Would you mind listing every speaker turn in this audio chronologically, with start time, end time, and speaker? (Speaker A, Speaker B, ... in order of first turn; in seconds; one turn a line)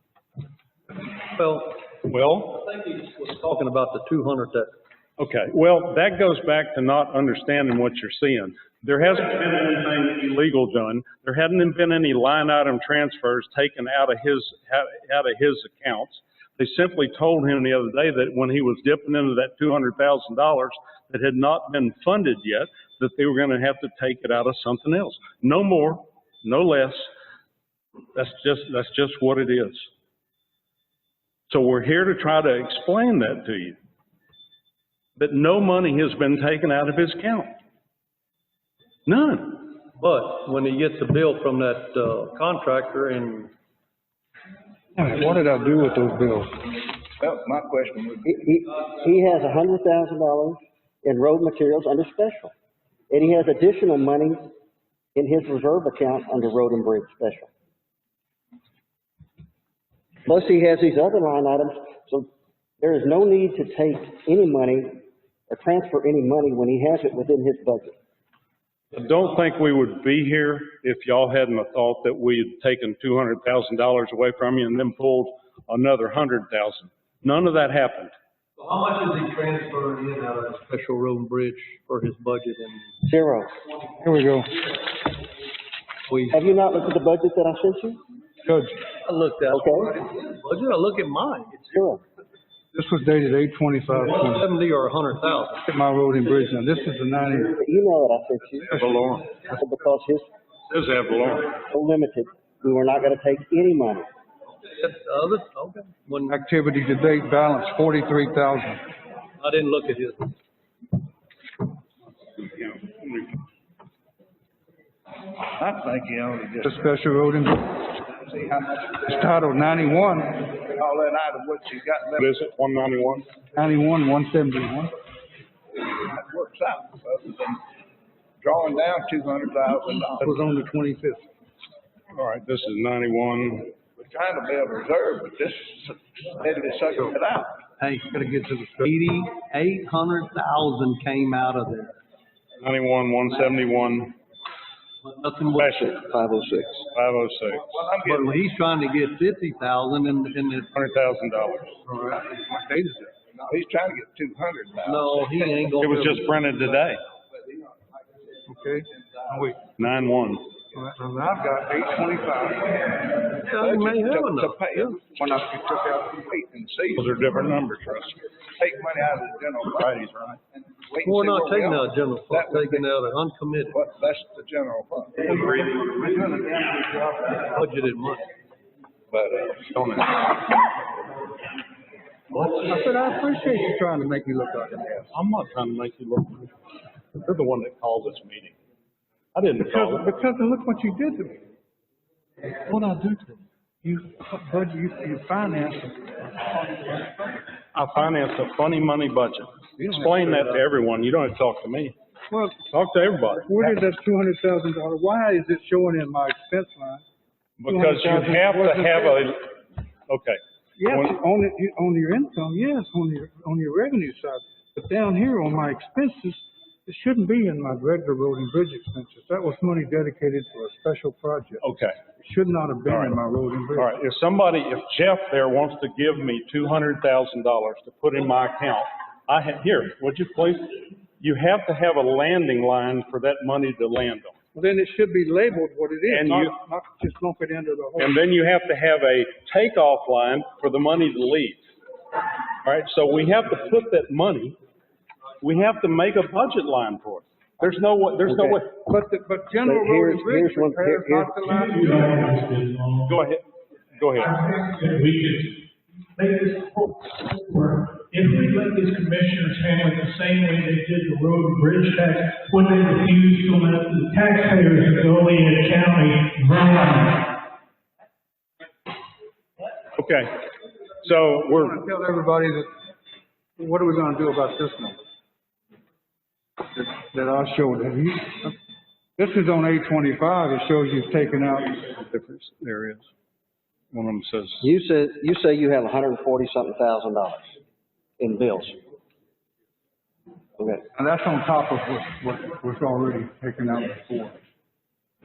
Speaker A: 1.3-1.8
Speaker B: 2.0-2.6
Speaker A: 2.5-4.7
Speaker B: 5.2-27.1
Speaker B: 28.1-29.9
Speaker B: 31.5-33.8
Speaker B: 35.2-37.5
Speaker B: 39.1-39.7
Speaker A: 39.9-43.5
Speaker C: 44.9-46.7
Speaker D: 47.2-48.4
Speaker E: 48.2-52.5
Speaker E: 53.1-54.5
Speaker E: 55.1-57.5
Speaker E: 60.2-62.3
Speaker E: 62.8-67.9
Speaker B: 68.9-78.1
Speaker A: 78.6-82.9
Speaker E: 83.0-83.5
Speaker C: 84.0-84.7
Speaker A: 86.1-86.4
Speaker E: 86.3-88.0
Speaker C: 88.4-88.8
Speaker A: 89.0-91.8
Speaker E: 89.5-89.9
Speaker E: 91.7-92.0
Speaker C: 92.7-94.4
Speaker A: 94.0-95.7
Speaker C: 95.7-97.5
Speaker E: 97.4-98.8
Speaker C: 98.7-99.2
Speaker B: 98.8-99.3
Speaker E: 99.5-100.3
Speaker B: 100.7-101.5
Speaker E: 101.7-104.1
Speaker A: 104.7-106.4
Speaker C: 106.3-108.8
Speaker A: 109.4-110.3
Speaker B: 112.4-113.4
Speaker D: 115.6-116.8
Speaker C: 116.6-117.9
Speaker D: 118.1-118.9
Speaker C: 118.9-120.5
Speaker D: 120.6-122.3
Speaker B: 122.2-123.3
Speaker C: 123.5-124.9
Speaker D: 125.8-127.6
Speaker D: 128.4-130.4
Speaker C: 130.2-131.3
Speaker B: 132.1-133.7
Speaker D: 134.0-137.6
Speaker A: 137.8-141.9
Speaker B: 142.6-144.2
Speaker A: 145.0-145.9
Speaker B: 145.6-146.0
Speaker E: 145.8-146.8
Speaker B: 146.9-147.7
Speaker D: 147.8-148.4
Speaker A: 148.0-150.7
Speaker B: 150.7-151.8
Speaker C: 151.9-153.2
Speaker D: 153.4-155.7
Speaker A: 154.8-156.3
Speaker B: 155.8-157.0
Speaker C: 158.5-159.7
Speaker B: 159.8-160.5
Speaker C: 160.7-162.8
Speaker A: 163.3-165.0
Speaker D: 163.6-165.3
Speaker C: 165.2-166.2
Speaker D: 166.2-167.1
Speaker B: 166.9-168.2
Speaker D: 168.6-169.9
Speaker B: 169.8-170.4
Speaker D: 170.9-172.9
Speaker A: 171.0-173.8
Speaker D: 173.7-175.3
Speaker B: 175.2-176.6
Speaker C: 176.2-177.3
Speaker A: 177.3-178.3
Speaker D: 179.1-179.6
Speaker B: 179.6-180.3
Speaker C: 182.3-185.1
Speaker B: 185.1-186.5
Speaker B: 187.2-188.6
Speaker B: 189.3-190.2
Speaker C: 189.6-191.4
Speaker A: 192.7-193.4
Speaker C: 193.8-197.3
Speaker B: 197.7-201.9
Speaker C: 199.8-200.5
Speaker C: 202.3-202.6
Speaker B: 202.7-203.7
Speaker C: 203.4-207.0
Speaker B: 207.6-211.1
Speaker C: 207.7-209.2
Speaker C: 210.8-221.6
Speaker B: 221.6-222.0
Speaker C: 222.2-223.9
Speaker B: 222.9-223.2
Speaker B: 223.8-234.3
Speaker C: 234.5-238.2
Speaker B: 236.1-236.5
Speaker B: 238.0-241.7
Speaker B: 242.6-244.6
Speaker B: 245.4-248.8
Speaker E: 248.2-248.6
Speaker C: 248.9-252.3
Speaker E: 249.6-251.4
Speaker F: 251.6-253.1
Speaker B: 253.1-253.4
Speaker B: 253.9-254.4
Speaker F: 254.3-255.6
Speaker F: 256.2-267.2
Speaker B: 270.0-270.3
Speaker B: 271.0-271.8
Speaker C: 271.6-272.7
Speaker C: 273.6-275.0
Speaker C: 276.7-278.6
Speaker C: 279.2-281.8
Speaker B: 281.8-283.1
Speaker B: 283.9-284.7
Speaker E: 284.6-287.6
Speaker E: 288.2-288.8
Speaker E: 290.6-290.9
Speaker C: 290.9-294.4